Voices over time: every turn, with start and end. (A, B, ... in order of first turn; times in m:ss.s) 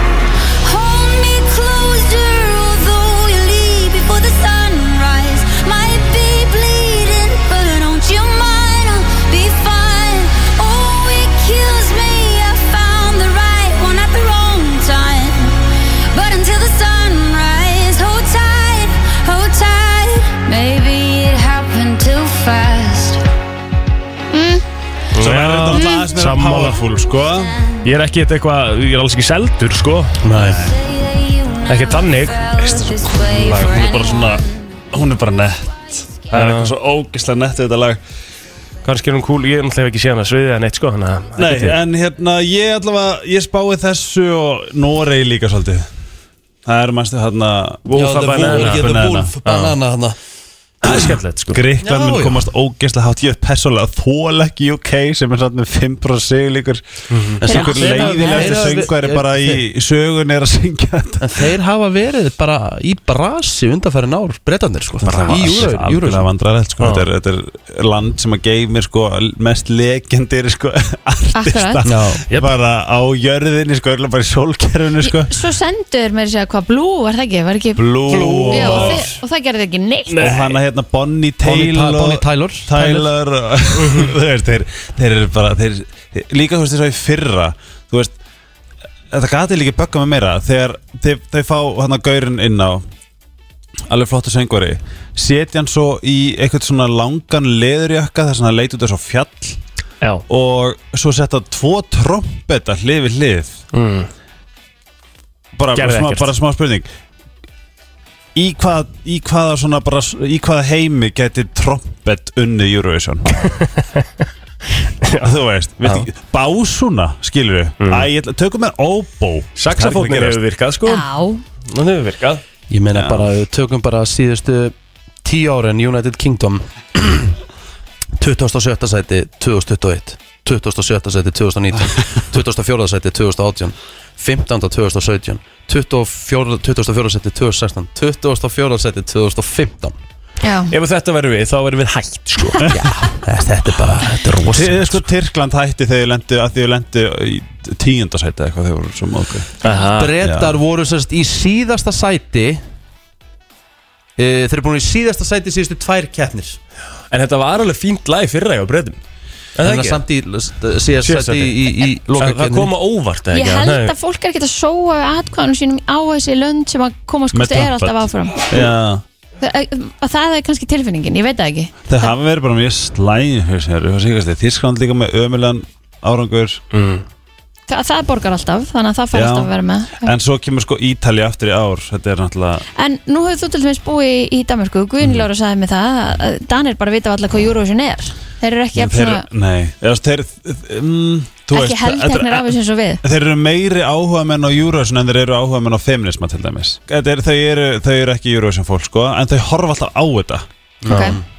0:00.6-0:15.6 A
0:16.1-0:23.2 A
0:24.3-0:24.6 B
0:25.1-0:26.8 C
0:25.2-0:27.5 D
0:25.8-0:26.0 B
0:27.8-0:30.2 C
0:30.2-0:30.7 E
0:30.4-0:30.8 D
0:30.7-0:34.5 A
0:31.7-0:32.5 C
0:32.6-0:38.0 D
0:36.3-0:36.7 C
0:38.8-0:41.8 C
0:41.4-0:45.9 D
0:46.6-0:49.3 D
0:47.9-0:48.9 C
0:48.0-0:50.2 E
0:49.4-0:49.8 C
0:50.8-0:51.6 C
0:50.8-1:01.5 D
0:51.8-0:52.4 E
0:57.1-0:57.4 C
0:57.4-0:59.6 E
0:57.5-0:58.9 B
1:01.2-1:06.3 E
1:05.0-1:15.4 D
1:05.2-1:05.7 C
1:06.8-1:07.1 C
1:11.4-1:11.8 B
1:11.8-1:12.2 E
1:15.0-1:20.3 B
1:17.8-1:19.2 D
1:18.1-1:19.1 E
1:20.1-1:20.6 C
1:20.2-1:28.1 D
1:21.4-1:23.1 E
1:23.8-1:24.1 C
1:29.1-1:32.8 D
1:33.9-1:39.6 D
1:40.3-1:43.6 D
1:43.7-1:44.1 C
1:45.6-1:46.9 D
1:45.8-1:46.3 C
1:48.4-1:53.5 D
1:55.2-2:00.4 D
1:57.8-1:58.1 C
1:59.6-2:01.1 C
2:00.8-2:01.4 B
2:01.6-2:02.4 C
2:02.7-2:07.4 E
2:02.9-2:03.3 D
2:08.2-2:20.0 E
2:20.4-2:20.7 B
2:20.7-2:22.7 C
2:22.7-2:25.0 E
2:24.5-2:29.5 D
2:29.6-2:30.2 C
2:30.0-2:32.6 E
2:30.2-2:30.6 D
2:34.2-2:36.6 E
2:37.1-2:39.0 C
2:39.6-2:40.0 C
2:39.6-2:42.7 E
2:41.0-2:43.9 C
2:43.3-2:48.5 B
2:47.3-2:49.0 D
2:49.4-2:52.1 B
2:51.9-2:56.6 D
2:56.7-2:57.0 C
2:57.7-3:00.1 B
2:59.1-3:02.6 D
3:02.8-3:09.3 B
3:08.8-3:20.4 D
3:11.5-3:13.0 B
3:20.8-3:21.2 E
3:20.9-3:21.2 B